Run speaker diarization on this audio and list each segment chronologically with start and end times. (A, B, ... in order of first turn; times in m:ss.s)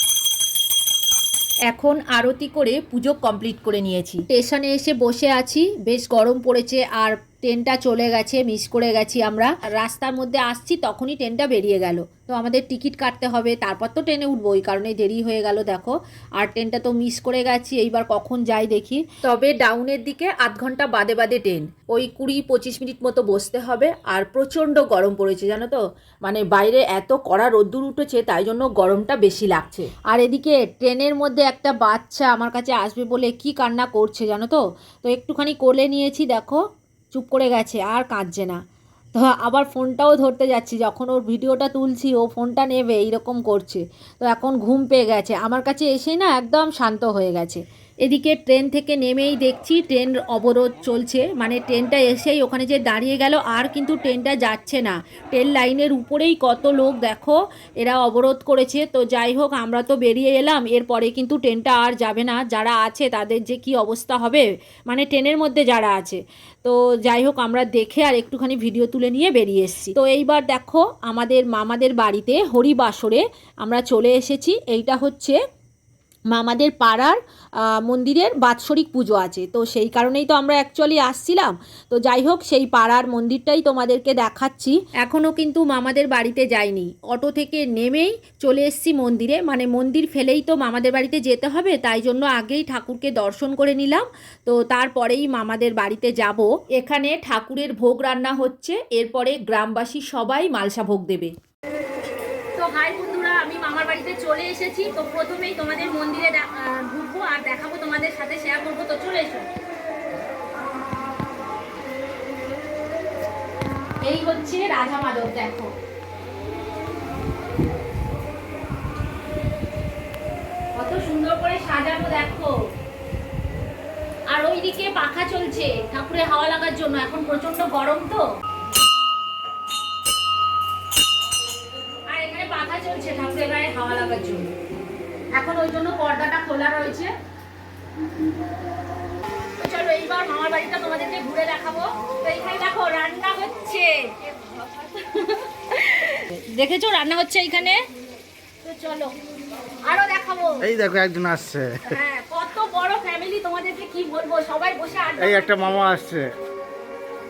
0:01.7-0:36.6 A
0:37.1-0:38.6 A
0:39.1-1:15.4 A
1:16.3-1:41.3 A
1:42.6-1:49.4 B
1:54.0-1:55.5 B
1:55.0-1:55.7 A
2:00.8-2:02.5 B
2:04.3-2:07.9 B
2:05.5-2:06.2 A
2:06.9-2:08.2 A
2:12.1-2:14.2 B
2:13.7-2:14.4 A
2:15.4-2:17.1 A
2:15.4-2:16.9 B
2:19.6-2:24.1 B
2:24.9-2:27.8 B
2:26.3-2:26.6 A
2:28.6-2:29.1 B
2:29.8-2:30.7 B
2:30.6-2:32.0 C
2:31.9-2:35.7 B
2:35.2-2:36.3 C